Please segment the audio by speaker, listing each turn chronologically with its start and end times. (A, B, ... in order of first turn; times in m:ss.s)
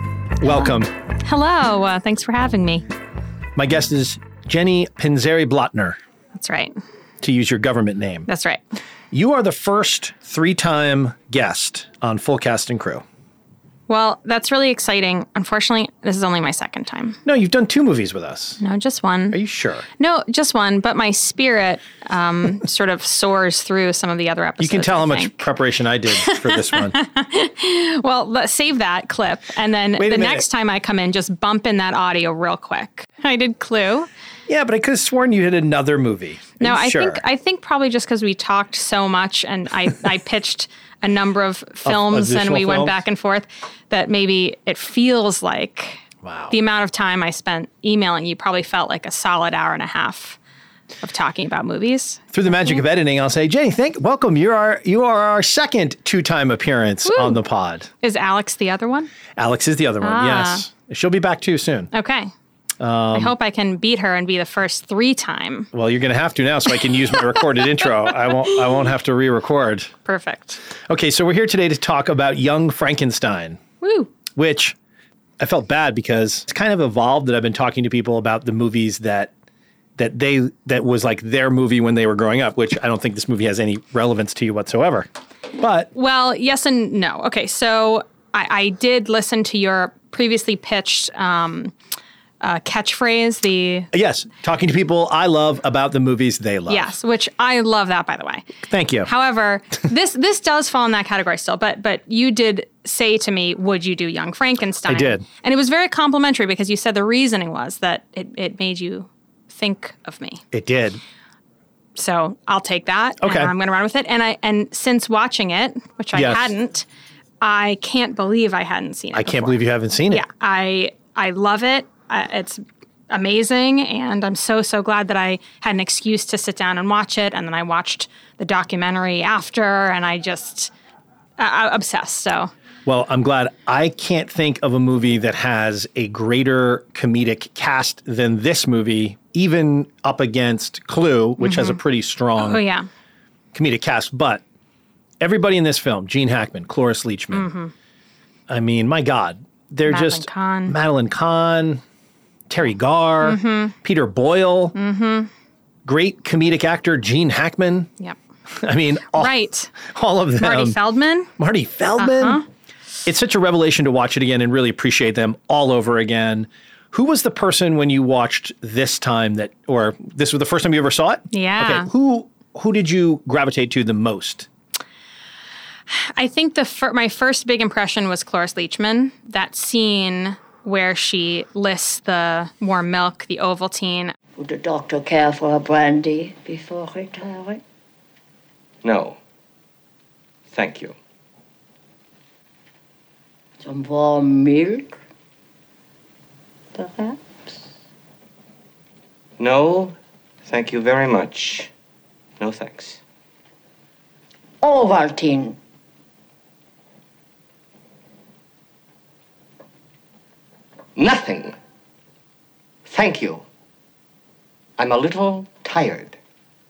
0:00.4-0:00.9 A
0:00.4-0:02.8 B
0:03.6-0:06.0 A
0:06.3-0:06.8 B
0:07.2-0:08.3 A
0:08.3-0:08.6 B
0:09.1-0:13.0 A
0:13.9-0:17.2 B
0:17.2-0:18.6 A
0:18.6-0:19.4 B
0:19.3-0:19.8 A
0:20.0-0:25.4 B
0:24.6-0:27.0 A
0:26.2-0:34.1 B
0:30.0-0:30.5 A
0:34.5-0:37.2 A
0:36.6-0:50.4 B
0:41.8-0:43.0 A
0:46.2-0:46.6 A
0:51.0-0:52.8 B
0:52.3-0:57.9 A
0:57.0-0:57.4 B
0:58.0-0:59.1 B
0:59.4-1:01.9 A
1:00.0-1:00.7 B
1:01.9-1:02.3 B
1:02.8-1:03.3 A
1:03.1-1:05.7 B
1:05.7-1:09.9 A
1:10.0-1:10.6 B
1:10.9-1:13.6 A
1:13.8-1:14.1 B
1:14.4-1:14.8 A
1:15.4-1:19.3 A
1:20.0-1:25.9 A
1:25.9-1:31.7 B
1:32.4-1:33.9 B
1:33.9-1:36.9 A
1:36.7-1:38.5 B
1:38.7-1:39.1 A
1:39.0-1:50.4 B
1:44.9-1:45.2 A
1:50.5-1:51.0 A
1:52.0-1:56.8 B
1:53.2-1:53.5 A
1:56.1-1:56.5 A
1:57.4-2:10.7 B
1:59.1-2:00.2 A
2:11.4-2:12.5 B
2:12.8-2:22.6 A
2:21.4-2:21.8 B
2:22.4-2:22.9 B
2:23.5-2:24.4 A
2:25.2-2:27.5 A
2:27.3-2:27.7 B
2:28.5-2:31.8 A
2:29.8-2:30.7 B
2:32.5-2:34.7 A
2:33.2-2:33.7 B
2:34.8-2:35.3 B
2:35.8-2:37.9 A
2:38.5-2:40.8 A
2:39.1-2:39.7 B
2:40.4-2:41.3 B
2:41.4-2:42.4 A
2:42.0-2:42.4 B
2:43.0-2:54.5 A
2:51.3-2:51.9 B
2:55.9-3:04.1 B
3:04.4-3:07.6 C
3:08.8-3:09.2 D
3:10.5-3:11.0 D
3:13.6-3:15.0 C
3:16.7-3:17.6 C
3:19.4-3:21.7 D
3:22.4-3:23.0 D
3:24.6-3:25.6 C
3:31.0-3:31.6 D
3:32.8-3:33.4 D
3:34.8-3:36.2 D